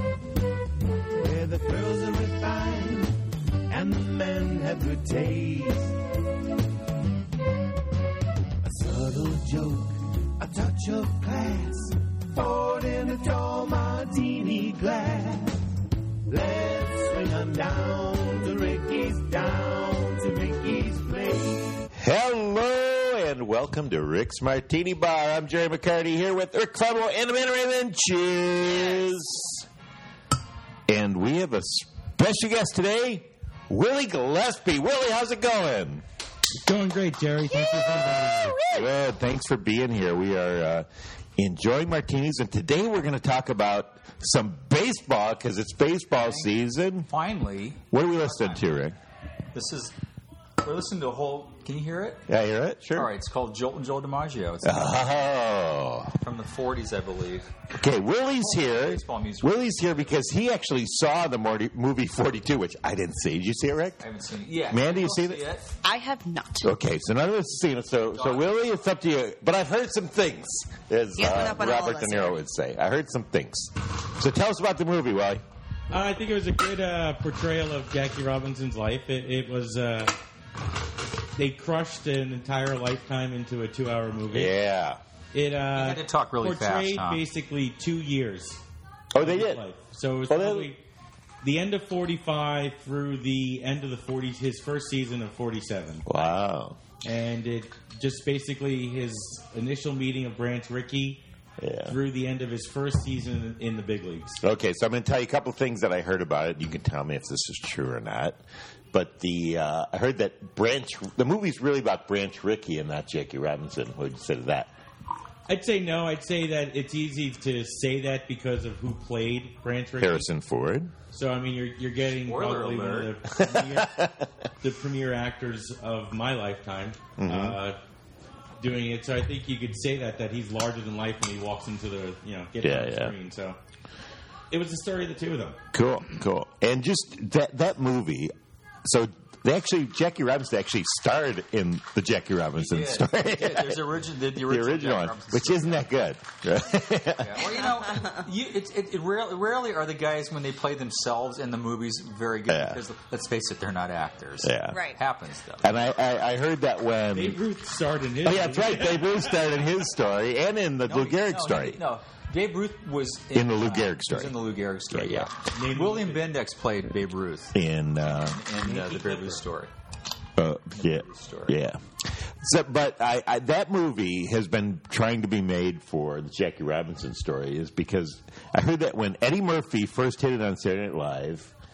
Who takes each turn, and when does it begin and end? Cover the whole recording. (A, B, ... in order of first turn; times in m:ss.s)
0:01.2-0:06.0 A
0:08.6-0:15.6 A
0:16.3-0:21.9 A
0:21.9-0:29.7 B
0:30.9-0:36.0 B
0:36.6-0:38.7 C
0:37.6-0:38.8 D
0:38.6-0:47.1 B
0:46.2-0:46.5 E
0:47.0-0:48.7 E
0:47.9-0:49.0 B
0:49.5-0:49.9 E
0:50.6-0:52.2 E
0:52.3-0:53.1 B
0:52.9-0:54.9 E
0:54.6-0:56.2 B
0:56.2-0:57.5 E
0:57.8-1:04.0 B
0:58.4-1:00.1 E
1:04.0-1:05.7 E
1:04.6-1:05.4 B
1:05.8-1:06.7 D
1:06.6-1:15.4 B
1:08.1-1:08.5 E
1:11.2-1:12.4 D
1:15.9-1:20.2 C
1:21.3-1:24.5 C
1:24.3-1:25.0 B
1:25.3-1:28.6 C
1:25.7-1:27.2 E
1:29.1-1:29.6 B
1:29.2-1:30.8 C
1:30.3-1:30.7 B
1:31.4-1:36.0 C
1:36.0-1:36.8 B
1:37.0-1:41.2 C
1:41.6-1:42.0 B
1:41.9-1:44.4 C
1:44.4-1:48.4 B
1:48.9-1:54.7 B
1:55.5-2:00.3 C
2:00.0-2:00.9 B
2:01.1-2:04.0 C
2:02.2-2:03.2 E
2:03.3-2:04.3 B
2:04.6-2:07.8 C
2:07.2-2:07.6 B
2:08.6-2:13.6 C
2:12.6-2:13.1 B
2:14.5-2:15.6 C
2:15.7-2:18.3 B
2:18.8-2:27.4 B
2:22.6-2:25.9 E
2:27.2-2:35.7 E
2:32.5-2:32.8 B
2:34.4-2:34.8 B
2:34.7-2:35.0 D
2:35.6-2:37.4 B
2:37.1-2:39.5 C
2:38.2-2:41.8 B
2:40.8-2:49.7 E
2:43.3-2:45.3 B
2:45.5-2:46.2 C
2:47.5-2:48.4 B
2:48.5-2:49.4 C
2:50.4-3:01.5 B
2:50.8-2:51.6 E